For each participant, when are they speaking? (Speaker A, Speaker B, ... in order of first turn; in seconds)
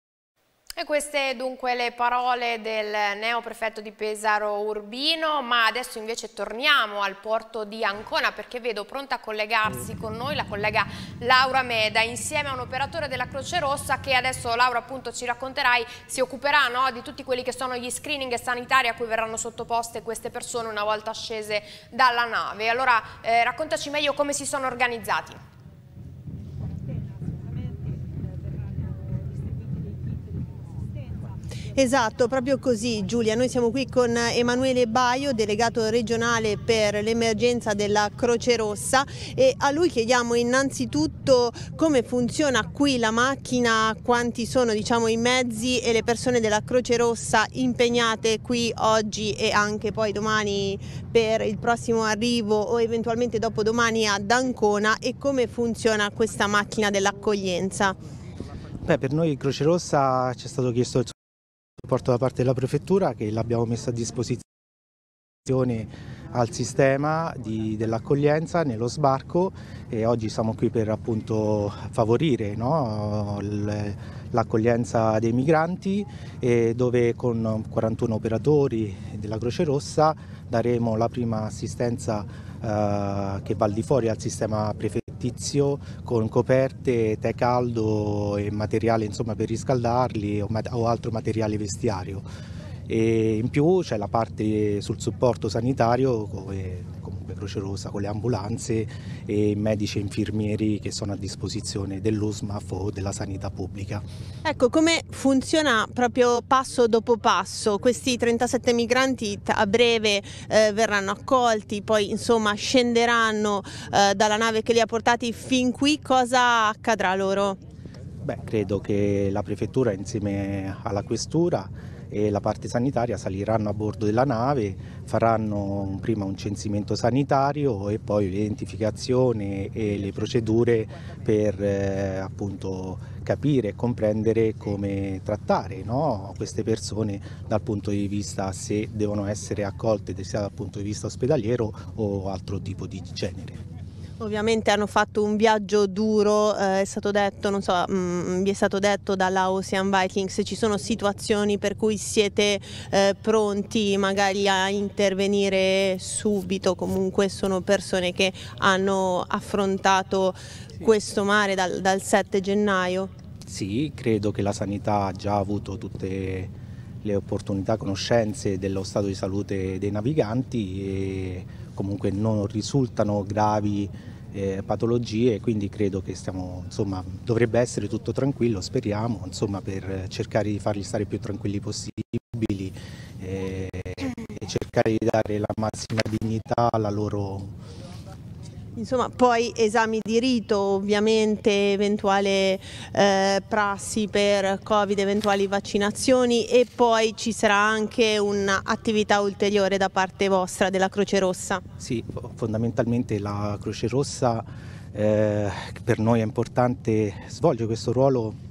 Speaker A: 0.8-25.4
Speaker B: 31.8-58.0, 104.5-117.6, 144.2-163.1, 188.8-201.6
Speaker C: 58.9-61.2, 61.8-64.5, 65.5-92.3, 92.9-104.0, 118.2-143.6, 163.4-187.5, 201.8-208.4